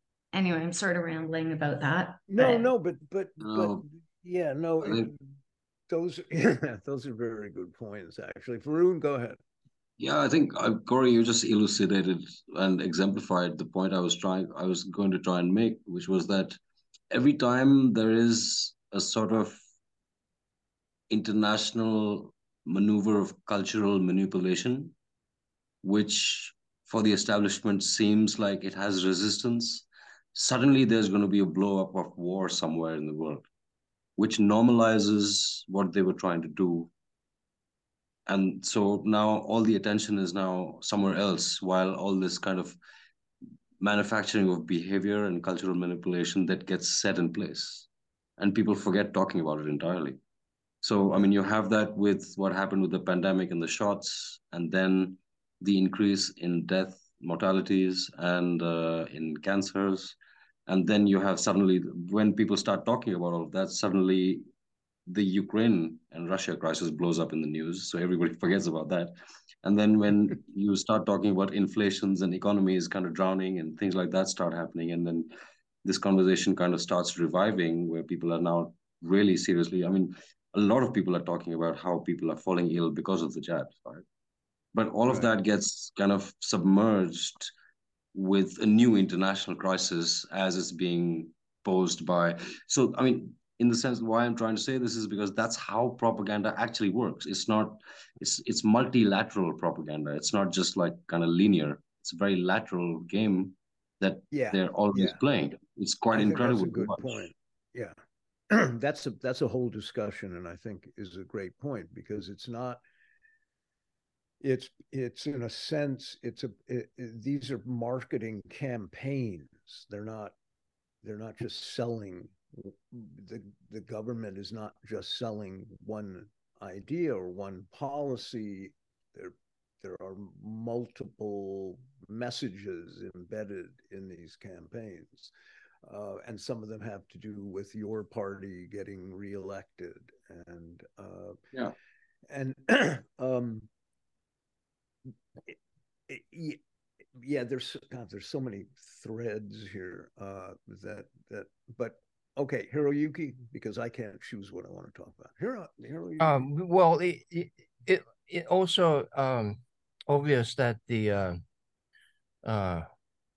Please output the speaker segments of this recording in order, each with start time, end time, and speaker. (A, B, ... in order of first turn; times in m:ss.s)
0:00.3-0:02.7 A
0:02.3-0:05.2 B
0:03.4-0:03.8 C
0:04.8-0:05.1 C
0:05.9-0:09.4 B
0:10.0-0:16.6 C
0:17.1-0:19.6 C
0:21.1-0:25.0 C
0:25.8-0:33.5 C
0:34.2-0:36.9 C
0:38.3-0:42.8 C
0:43.8-0:50.2 C
0:50.8-1:00.2 C
1:00.7-1:04.4 C
1:05.1-1:15.3 C
1:15.8-1:24.0 C
1:24.7-1:27.5 C
1:28.1-1:47.2 C
1:44.3-1:45.2 B
1:46.1-1:48.0 B
1:48.5-1:52.8 B
1:54.4-2:00.4 B
2:01.0-2:15.3 B
2:15.8-2:21.6 B
2:22.3-2:23.7 B
2:26.1-2:26.6 B
2:27.2-2:36.4 B
2:36.2-2:41.4 D
2:42.4-2:42.9 D